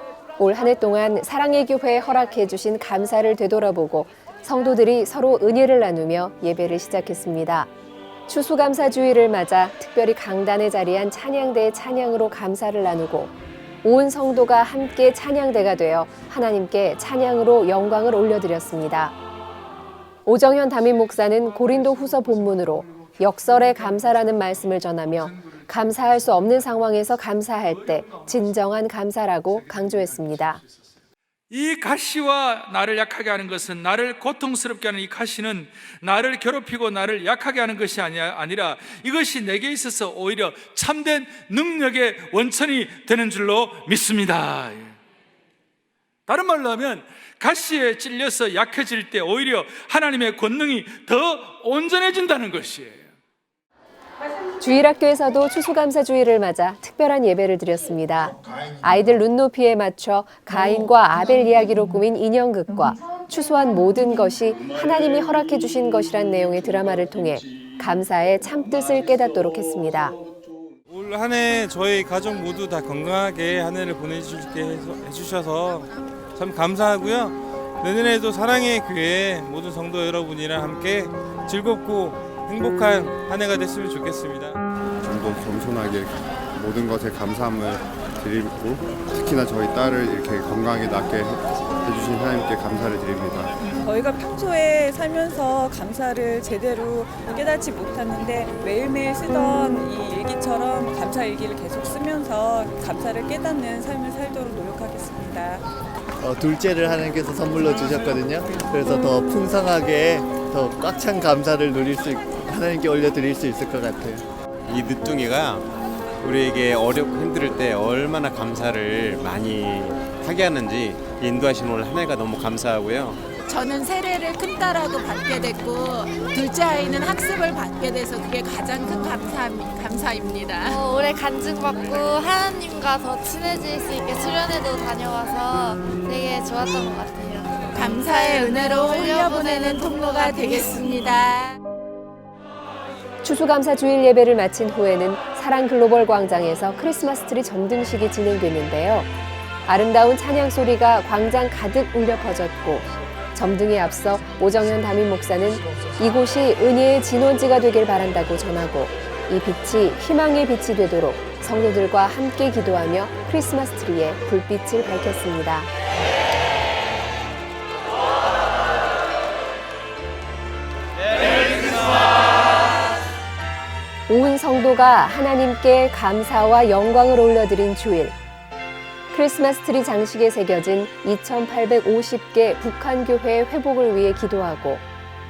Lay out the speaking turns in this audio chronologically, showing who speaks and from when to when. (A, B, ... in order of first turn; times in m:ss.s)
0:00.4-0:07.7 A
0:08.3-0:19.1 A
0:20.2-0:30.6 A
0:31.5-0:44.9 B
0:46.3-0:53.1 B
0:54.6-1:10.2 A
1:10.9-1:24.6 C
1:25.0-1:33.6 D
1:33.7-1:45.6 E
1:46.2-1:54.2 F
1:54.7-1:55.6 G
1:56.2-2:03.2 G
2:03.5-2:10.8 H
2:10.6-2:20.8 I
2:17.7-2:21.5 H
2:23.2-2:29.1 A
2:29.7-2:45.7 A
2:54.1-2:58.2 A
2:59.1-3:04.8 A